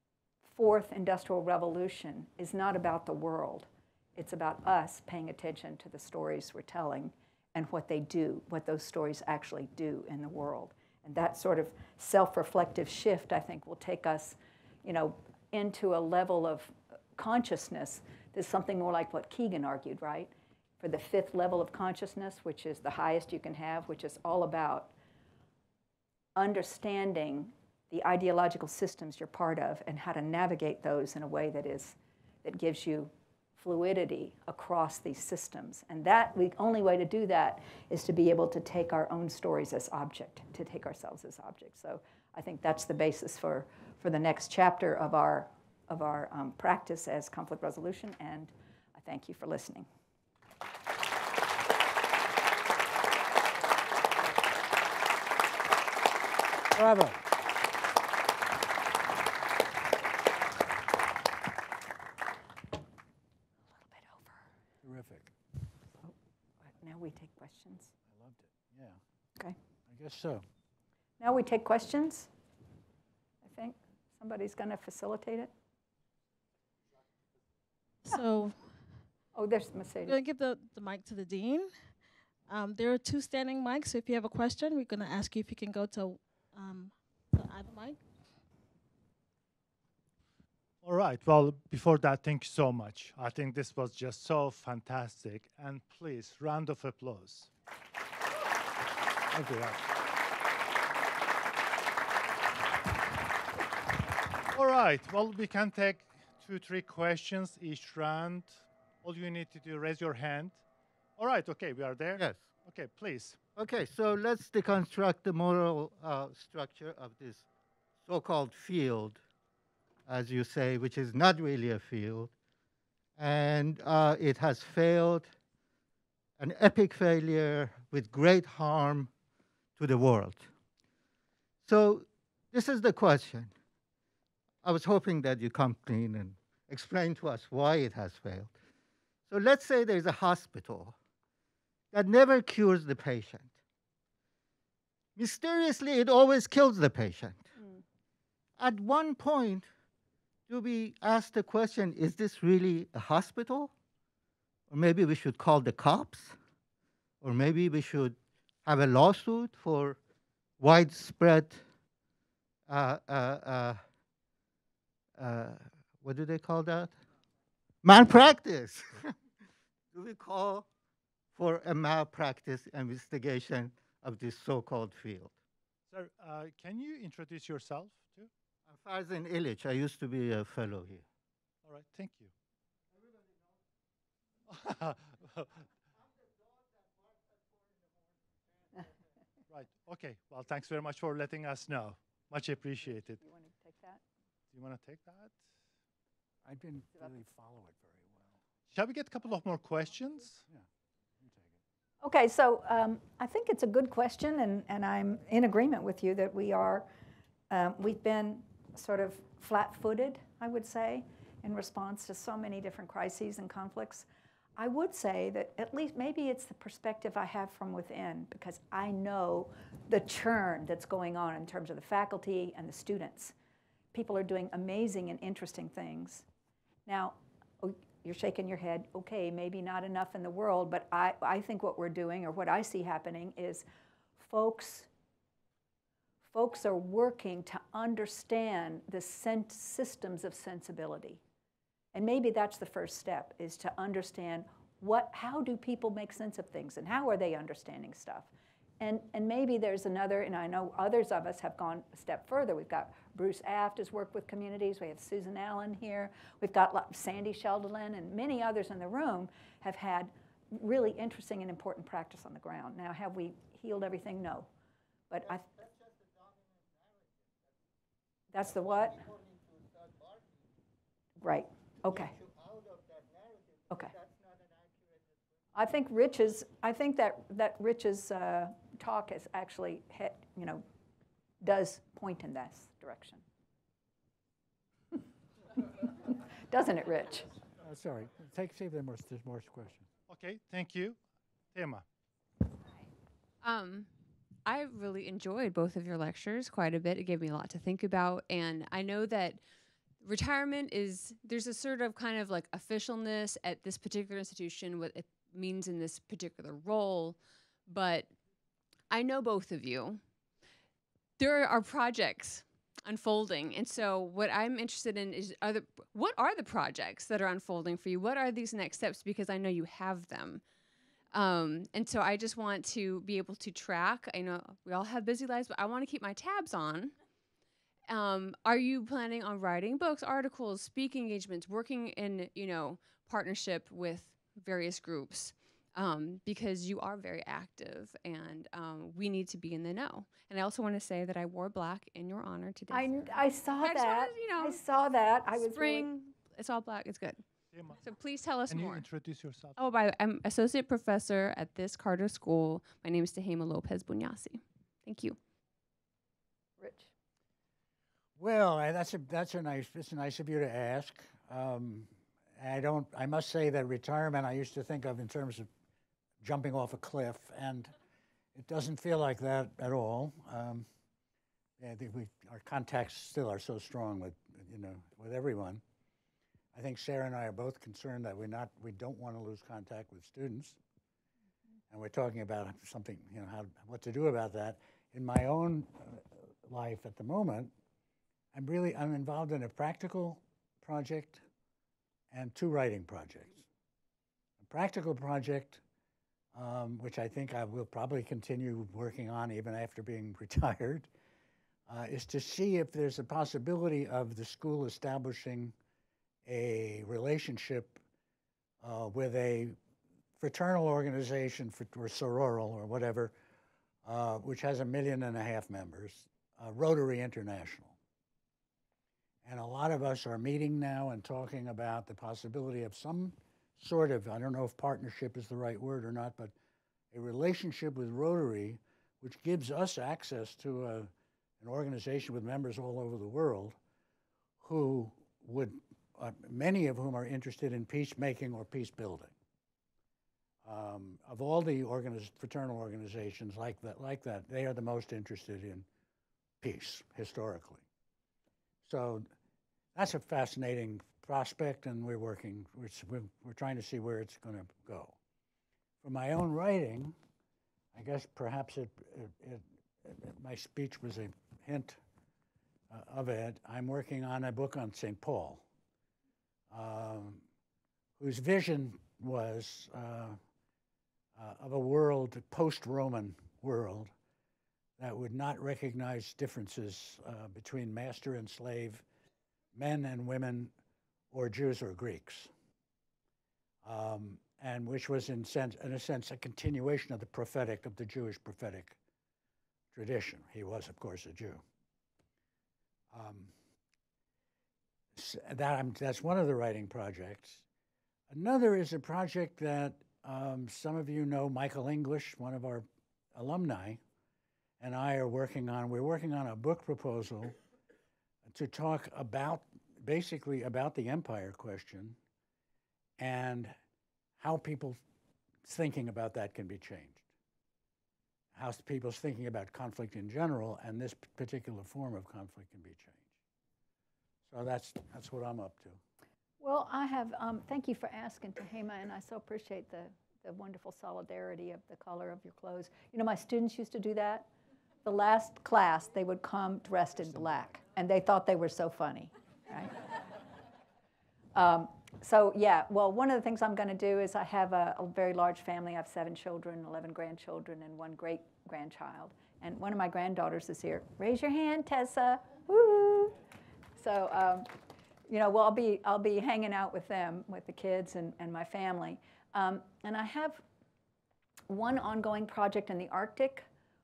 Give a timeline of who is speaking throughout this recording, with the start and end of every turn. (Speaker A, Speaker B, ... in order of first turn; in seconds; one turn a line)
Speaker A: 0.4-24.9
Speaker A: 26.4-49.9
Speaker B: 56.7-57.2
Speaker A: 63.7-64.5
Speaker B: 64.8-65.3
Speaker A: 66.6-67.9
Speaker B: 68.1-69.0
Speaker B: 69.9-70.4
Speaker A: 71.2-72.3
Speaker A: 73.4-75.5
Speaker C: 78.1-78.6
Speaker A: 79.3-80.2
Speaker C: 80.0-81.9
Speaker C: 82.5-88.0
Speaker D: 90.8-97.5
Speaker D: 99.3-99.7
Speaker D: 104.5-110.6
Speaker D: 111.2-113.4
Speaker E: 112.2-112.5
Speaker E: 113.5-117.5
Speaker E: 118.0-119.2
Speaker E: 120.0-122.3
Speaker E: 123.2-125.3
Speaker E: 126.4-129.1
Speaker E: 129.8-130.5
Speaker E: 131.6-133.5
Speaker E: 134.6-138.5
Speaker E: 139.3-140.9
Speaker E: 141.9-143.6
Speaker E: 145.2-147.5
Speaker E: 148.6-149.7
Speaker E: 150.5-153.7
Speaker E: 154.7-156.4
Speaker E: 157.2-160.0
Speaker E: 160.6-161.6
Speaker E: 162.7-163.8
Speaker E: 165.2-167.0
Speaker E: 167.8-169.1
Speaker E: 169.9-170.7
Speaker E: 171.3-175.3
Speaker D: 175.9-178.3
Speaker E: 178.7-181.0
Speaker D: 181.6-182.3
Speaker D: 184.5-185.6
Speaker D: 189.5-193.2
Speaker A: 193.2-194.0
Speaker D: 194.5-195.3
Speaker B: 196.4-198.3
Speaker D: 198.7-200.4
Speaker B: 201.2-201.5
Speaker A: 202.0-206.9
Speaker A: 207.5-223.3
Speaker A: 223.9-226.2
Speaker A: 226.8-233.6
Speaker A: 234.2-234.9
Speaker A: 236.3-241.2
Speaker A: 241.9-248.3
Speaker A: 248.8-264.5
Speaker A: 265.1-265.5
Speaker A: 268.3-269.0
Speaker A: 271.2-272.1
Speaker A: 275.5-280.6
Speaker A: 281.4-283.2
Speaker A: 285.8-287.3
Speaker B: 287.6-289.9
Speaker D: 290.1-291.0
Speaker D: 291.5-291.8
Speaker F: 293.4-293.9
Speaker F: 294.4-299.4
Speaker F: 300.0-308.1
Speaker F: 308.9-310.0
Speaker F: 311.2-320.4
Speaker F: 321.1-326.9
Speaker F: 327.9-344.6
Speaker A: 342.7-345.9
Speaker F: 345.3-347.2
Speaker D: 347.5-347.8
Speaker F: 347.8-348.8
Speaker D: 348.5-349.6
Speaker F: 349.6-355.2
Speaker A: 356.6-356.9
Speaker B: 358.2-365.5
Speaker B: 366.2-367.7
Speaker B: 368.3-370.7
Speaker B: 371.6-375.6
Speaker B: 376.5-380.6
Speaker B: 381.7-387.5
Speaker B: 388.3-391.2
Speaker B: 392.1-393.4
Speaker B: 394.4-395.6
Speaker B: 396.3-400.9
Speaker B: 401.7-405.5
Speaker B: 406.2-407.8
Speaker B: 408.6-409.6
Speaker B: 410.2-413.1
Speaker B: 413.8-417.8
Speaker B: 419.2-426.3
Speaker B: 426.9-433.6
Speaker B: 434.4-439.1
Speaker B: 440.4-445.6
Speaker B: 446.4-447.6
Speaker B: 448.6-449.1
Speaker B: 449.8-454.9
Speaker B: 455.8-456.9
Speaker B: 457.7-461.8
Speaker B: 462.7-465.4
Speaker B: 466.5-467.2
Speaker B: 468.0-470.2
Speaker B: 471.2-473.9
Speaker B: 474.8-478.8
Speaker B: 479.5-480.5
Speaker B: 481.1-482.3
Speaker B: 483.6-488.8
Speaker B: 489.7-491.4
Speaker B: 492.9-493.3
Speaker B: 494.9-497.4
Speaker B: 498.1-503.8
Speaker B: 504.6-507.4
Speaker B: 508.3-512.0
Speaker B: 513.0-513.5
Speaker B: 514.2-514.8
Speaker B: 515.4-517.0
Speaker B: 518.3-523.1
Speaker B: 524.3-525.8
Speaker A: 526.4-534.2
Speaker A: 534.8-539.8
Speaker B: 537.0-537.5
Speaker A: 541.3-553.1
Speaker A: 553.8-554.5
Speaker A: 555.1-560.4
Speaker A: 561.5-563.5